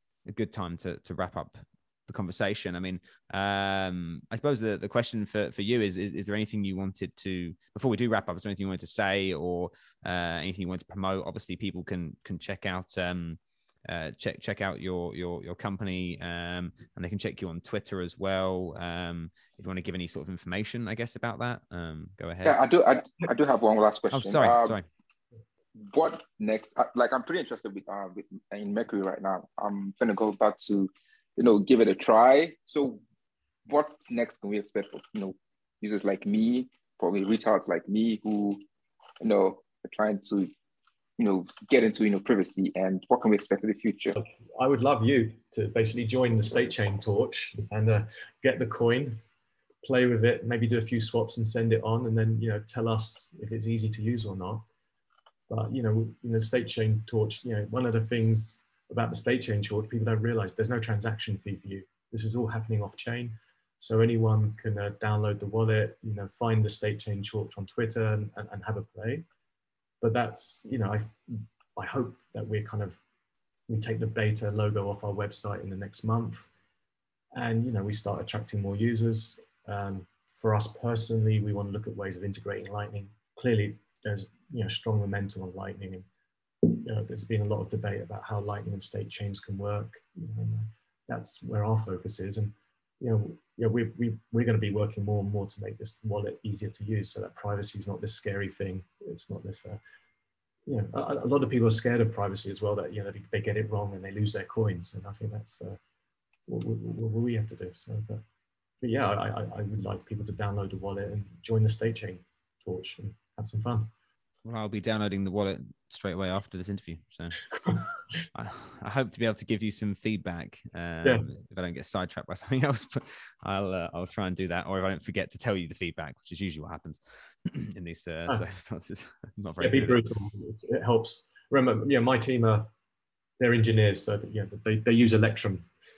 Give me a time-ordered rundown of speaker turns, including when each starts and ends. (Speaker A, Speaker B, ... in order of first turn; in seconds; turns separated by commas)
Speaker A: 0.3-22.6, Speaker B: 22.4-24.8, Speaker A: 24.1-24.9, Speaker B: 25.9-33.0, Speaker B: 33.7-38.6, Speaker B: 39.2-40.5, Speaker B: 41.2-44.1, Speaker C: 44.2-49.1, Speaker C: 49.8-54.6, Speaker C: 55.5-69.2, Speaker C: 70.0-71.1, Speaker C: 71.8-73.0, Speaker C: 73.7-76.5, Speaker C: 77.3-86.0, Speaker C: 86.7-99.8, Speaker C: 100.7-105.8, Speaker C: 106.5-108.2, Speaker C: 108.8-113.9, Speaker A: 114.4-117.4, Speaker C: 117.6-117.9, Speaker A: 118.3-130.1, Speaker C: 129.6-132.7, Speaker C: 133.4-135.7